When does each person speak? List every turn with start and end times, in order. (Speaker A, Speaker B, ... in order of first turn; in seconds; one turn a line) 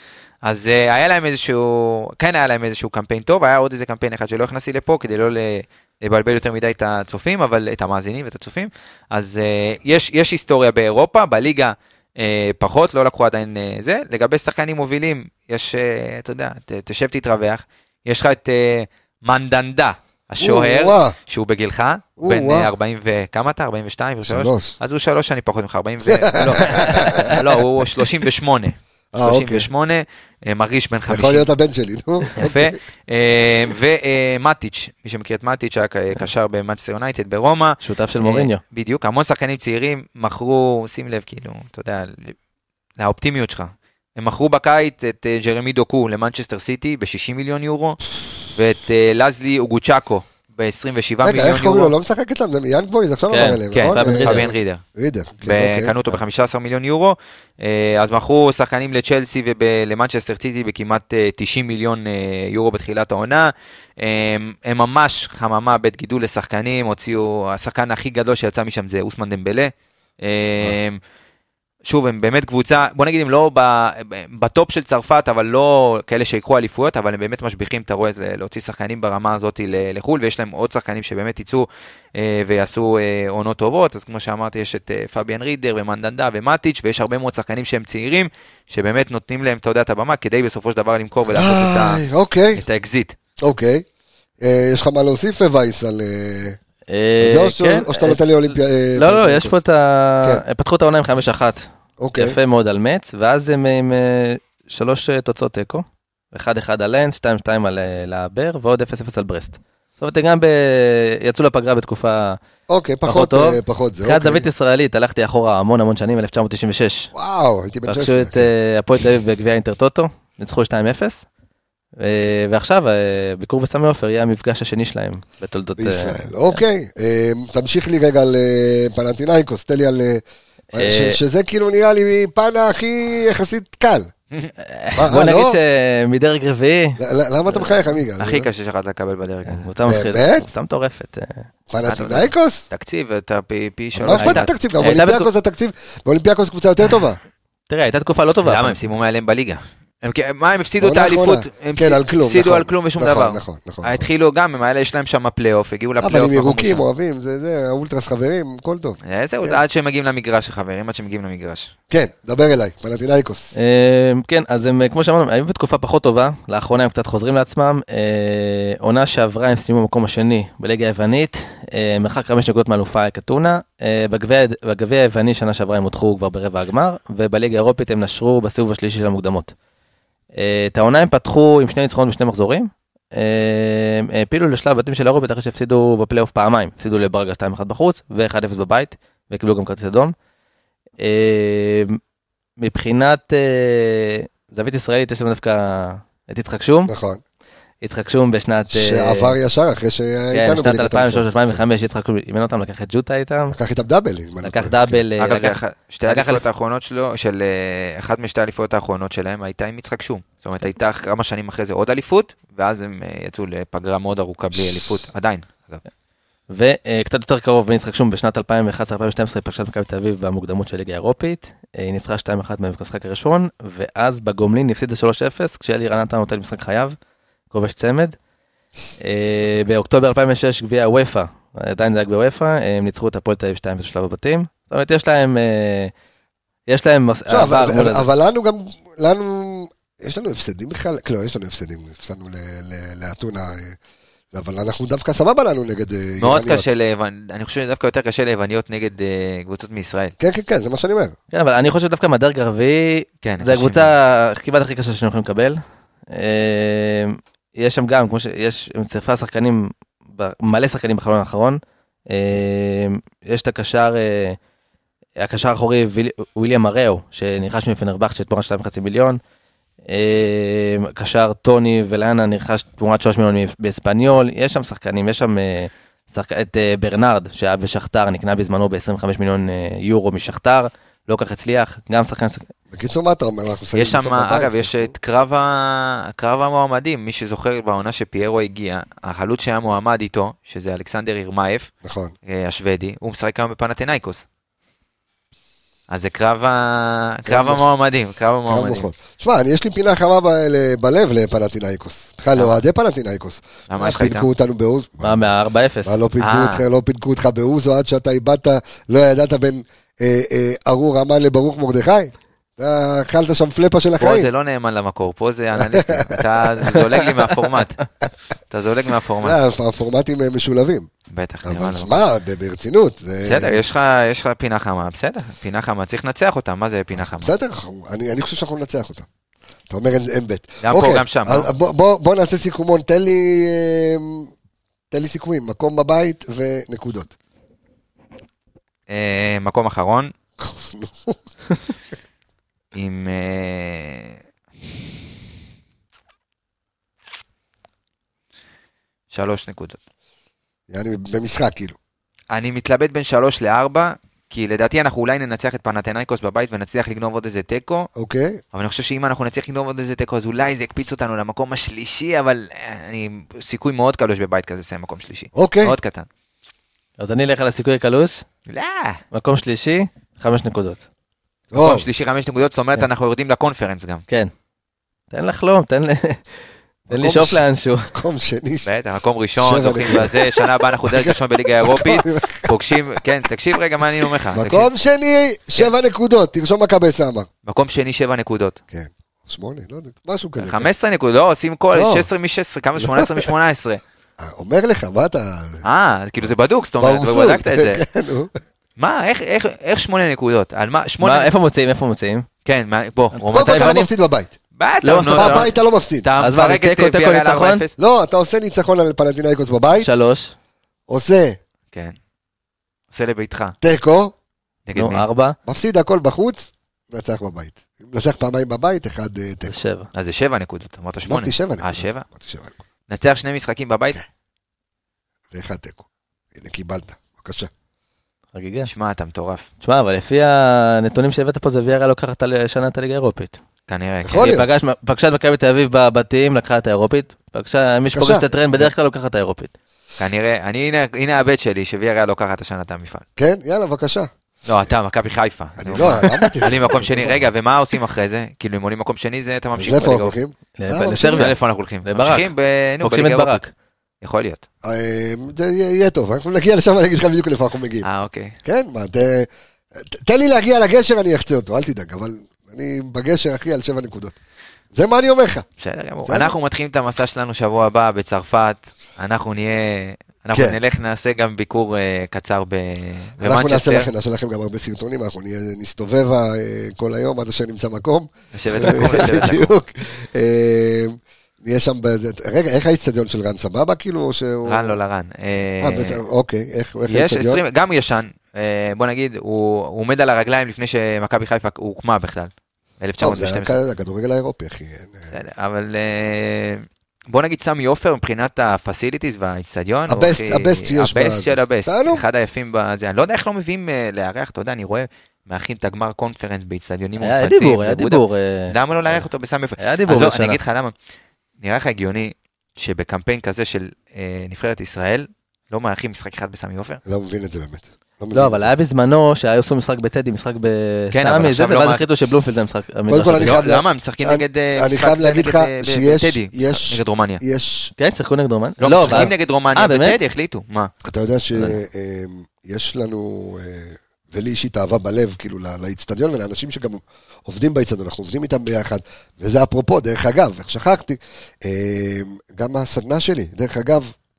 Speaker A: 0.4-31.5
Speaker B: 20.4-21.1
Speaker B: 22.2-22.7
Speaker B: 24.3-24.7
Speaker B: 26.1-27.4
Speaker C: 26.7-27.1
Speaker B: 29.1-29.7
Speaker B: 31.1-32.7
Speaker A: 32.4-42.4
Speaker C: 37.8-38.6
Speaker A: 43.0-48.0
Speaker A: 48.5-51.9
Speaker B: 51.2-55.9
Speaker C: 53.3-54.5
Speaker A: 53.7-54.8
Speaker A: 55.4-71.0
Speaker A: 71.8-92.0
Speaker B: 91.3-92.6
Speaker A: 92.5-93.2
Speaker B: 93.4-93.8
Speaker B: 94.4-96.6
Speaker C: 96.9-98.2
Speaker B: 97.2-99.6
Speaker C: 99.0-112.4
Speaker B: 102.0-102.4
Speaker B: 112.7-114.5
Speaker C: 113.1-117.1
Speaker B: 117.1-118.5
Speaker C: 117.9-121.3
Speaker C: 122.0-126.6
Speaker B: 125.8-134.1
Speaker C: 130.8-131.2
Speaker C: 134.6-137.0
Speaker B: 135.0-135.6
Speaker B: 137.0-138.5
Speaker A: 138.2-139.7
Speaker C: 139.5-141.5
Speaker B: 139.9-140.5
Speaker B: 141.7-142.7
Speaker A: 141.9-144.5
Speaker B: 143.9-147.2
Speaker C: 144.1-145.3
Speaker C: 147.7-148.8
Speaker A: 148.4-156.8
Speaker B: 150.8-154.1
Speaker B: 156.0-159.6
Speaker A: 159.0-161.7
Speaker B: 161.9-163.5
Speaker C: 163.6-179.5
Speaker C: 180.4-190.2
Speaker C: 191.0-192.0
Speaker C: 192.6-196.9
Speaker B: 196.9-197.2
Speaker C: 197.8-199.4
Speaker B: 198.7-201.3
Speaker C: 200.3-203.6
Speaker B: 203.5-205.0
Speaker C: 204.4-206.4
Speaker A: 205.2-215.8
Speaker C: 216.5-227.0
Speaker C: 227.5-228.2
Speaker C: 229.0-235.9
Speaker C: 236.7-238.1
Speaker B: 237.3-243.8
Speaker B: 244.3-246.7
Speaker A: 246.2-250.2
Speaker B: 250.2-251.2
Speaker C: 251.3-264.4
Speaker A: 253.2-253.9
Speaker C: 265.2-269.2
Speaker C: 269.9-282.5
Speaker B: 282.7-284.9
Speaker A: 283.8-291.7
Speaker B: 291.8-292.1
Speaker A: 292.3-294.2
Speaker A: 295.9-298.9
Speaker B: 297.3-297.7
Speaker B: 298.5-305.3
Speaker A: 303.7-304.3
Speaker C: 305.0-306.0
Speaker B: 305.9-314.3
Speaker A: 306.2-306.6
Speaker A: 314.0-317.8
Speaker B: 315.6-316.8
Speaker A: 318.5-319.4
Speaker B: 319.2-320.9
Speaker A: 321.1-322.0
Speaker B: 321.4-323.6
Speaker A: 323.2-327.3
Speaker B: 327.0-329.1
Speaker B: 329.7-334.3
Speaker A: 330.6-331.5
Speaker B: 334.9-337.1
Speaker A: 338.9-340.1
Speaker B: 340.4-341.2
Speaker A: 342.8-344.1
Speaker A: 349.1-349.8
Speaker B: 350.7-351.8
Speaker A: 352.3-357.9
Speaker B: 358.0-358.4
Speaker A: 358.5-366.1
Speaker B: 365.4-365.8
Speaker C: 367.0-368.2
Speaker A: 368.5-369.0
Speaker C: 369.1-370.8
Speaker B: 371.5-371.9
Speaker A: 371.6-374.0
Speaker C: 375.1-377.9
Speaker B: 376.9-378.7
Speaker A: 378.6-384.7
Speaker B: 379.4-382.6
Speaker B: 384.3-387.3
Speaker A: 387.5-388.6
Speaker B: 388.7-390.7
Speaker A: 390.4-393.8
Speaker B: 391.7-392.1
Speaker B: 392.8-393.3
Speaker B: 394.2-395.6
Speaker A: 395.6-397.8
Speaker B: 396.8-398.4
Speaker A: 398.8-401.3
Speaker C: 401.0-402.3
Speaker A: 402.4-403.8
Speaker C: 403.2-403.9
Speaker B: 403.3-404.3
Speaker A: 404.6-405.5
Speaker C: 404.8-405.5
Speaker B: 405.1-406.1
Speaker A: 406.0-407.7
Speaker C: 406.2-407.6
Speaker B: 407.8-409.9
Speaker C: 409.8-410.4
Speaker B: 410.9-411.4
Speaker A: 412.9-413.6
Speaker B: 413.6-414.1
Speaker A: 414.7-415.1
Speaker C: 414.8-415.4
Speaker B: 415.5-419.6
Speaker C: 419.5-419.9
Speaker A: 419.9-422.1
Speaker B: 421.1-422.6
Speaker A: 422.9-424.0
Speaker B: 425.3-427.5
Speaker C: 428.3-428.7
Speaker A: 428.7-429.5
Speaker C: 429.6-433.4
Speaker A: 433.7-434.3
Speaker B: 434.0-434.5
Speaker C: 434.2-439.5
Speaker B: 437.9-438.2
Speaker A: 440.0-443.1
Speaker B: 443.2-444.1
Speaker A: 444.5-450.1
Speaker B: 445.6-447.2
Speaker B: 449.6-451.3
Speaker C: 450.6-453.5
Speaker A: 450.9-453.4
Speaker A: 454.0-454.4
Speaker B: 454.6-457.9
Speaker A: 457.8-458.4
Speaker B: 458.4-459.3
Speaker B: 459.8-464.2
Speaker B: 464.7-465.4
Speaker A: 465.6-473.9
Speaker B: 466.1-466.3
Speaker B: 470.3-470.6
Speaker B: 473.2-484.8
Speaker A: 478.3-479.5
Speaker A: 484.5-486.0
Speaker B: 485.6-487.4
Speaker A: 486.9-493.6
Speaker B: 493.0-495.1
Speaker A: 495.1-510.7
Speaker B: 499.9-502.0
Speaker C: 507.0-509.0
Speaker C: 509.6-510.4
Speaker A: 511.4-516.8
Speaker B: 516.9-518.5
Speaker C: 518.1-523.4
Speaker A: 520.9-521.8
Speaker B: 522.9-527.7
Speaker A: 523.2-527.2
Speaker C: 527.8-530.0
Speaker A: 528.6-530.7
Speaker B: 528.9-529.1
Speaker B: 530.8-543.9